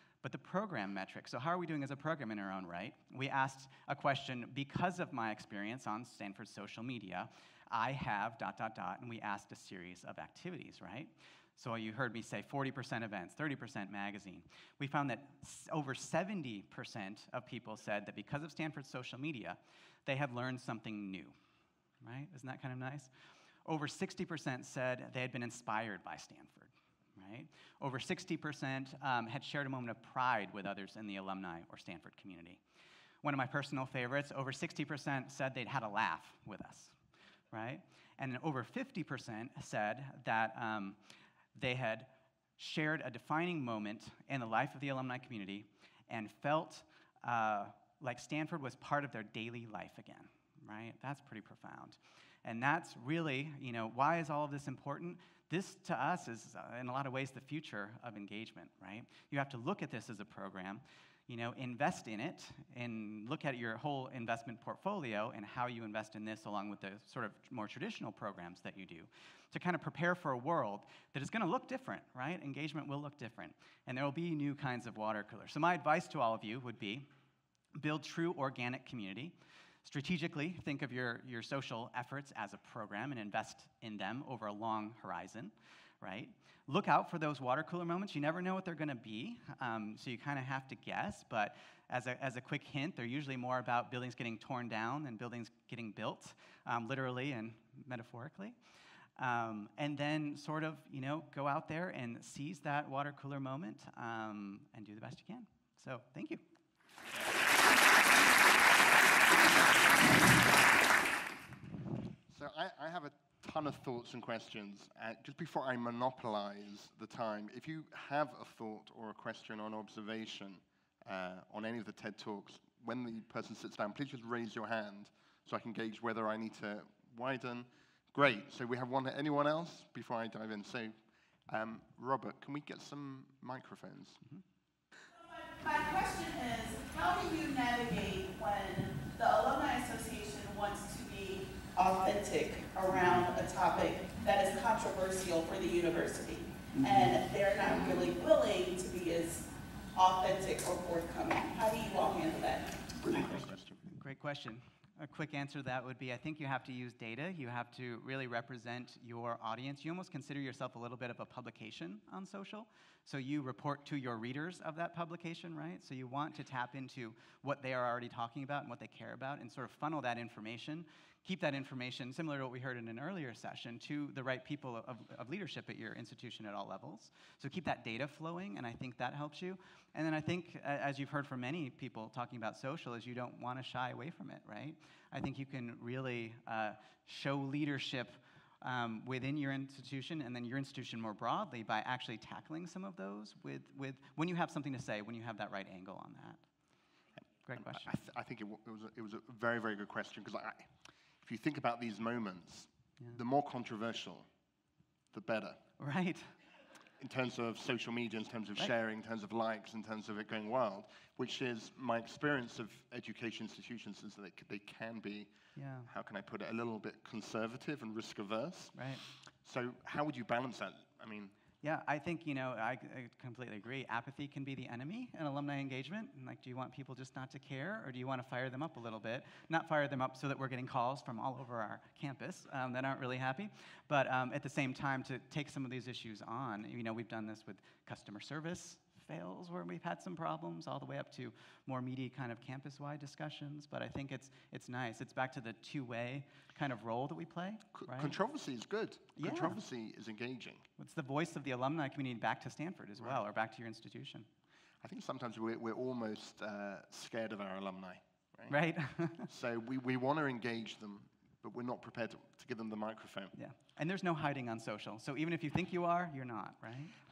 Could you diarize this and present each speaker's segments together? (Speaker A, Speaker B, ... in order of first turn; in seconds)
Speaker A: 0.2-21.3, 22.0-23.1, 23.6-32.6, 33.2-36.9, 37.5-41.0, 41.5-77.1, 77.7-98.6, 99.2-106.4, 153.9-196.4, 197.4-197.9, 205.8-206.3, 215.6-215.9, 218.7-219.0, 221.6-248.2, 249.2-249.6, 250.8-254.3, 258.5-259.3, 263.3-266.9
Speaker B: 112.3-130.9, 131.5-134.2, 153.0-153.8, 197.5-200.7, 201.2-204.3, 205.1-205.6, 207.0-215.3, 215.8-218.8, 219.4-221.3, 247.7-250.7, 254.8-258.5, 259.3-263.3
Speaker C: 135.4-152.9